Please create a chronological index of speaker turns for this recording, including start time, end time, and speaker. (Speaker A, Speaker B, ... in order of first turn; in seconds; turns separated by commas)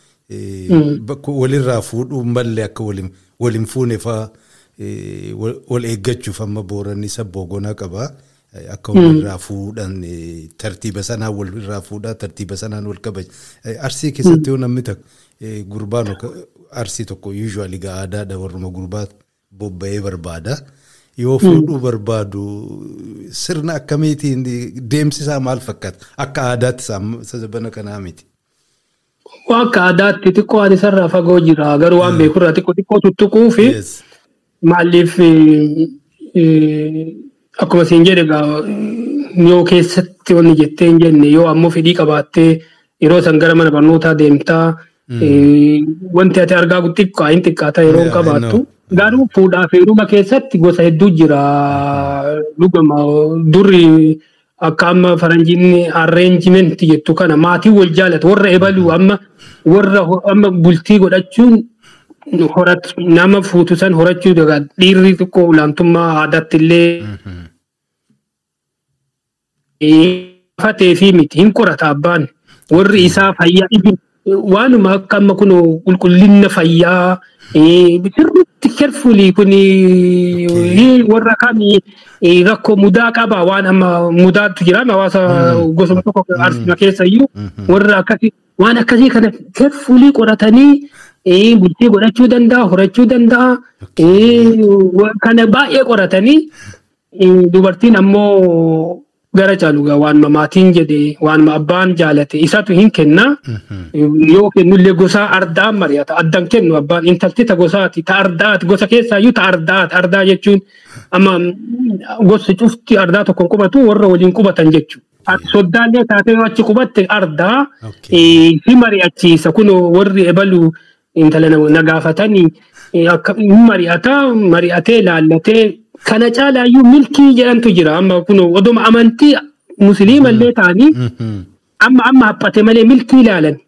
Speaker A: 0.3-20.6, Speaker B: 0.7-1.0, Speaker B: 8.9-9.2, Speaker A: 21.2-28.2, Speaker B: 21.4-21.7, Speaker B: 29.5-33.8, Speaker A: 32.0-32.3, Speaker A: 33.6-34.0, Speaker B: 34.6-61.7, Speaker A: 45.1-45.5, Speaker A: 47.9-49.2, Speaker A: 51.7-52.2, Speaker A: 58.6-58.9, Speaker B: 62.3-67.1, Speaker A: 67.0-67.5, Speaker B: 69.8-96.5, Speaker A: 72.8-73.2, Speaker A: 80.3-80.9, Speaker A: 85.3-86.7, Speaker A: 87.3-87.7, Speaker A: 93.8-94.6, Speaker B: 97.1-103.3, Speaker A: 103.5-103.9, Speaker B: 103.9-110.6, Speaker B: 111.1-130.9, Speaker A: 115.3-115.5, Speaker A: 117.8-118.4, Speaker A: 130.1-131.5, Speaker B: 131.8-133.6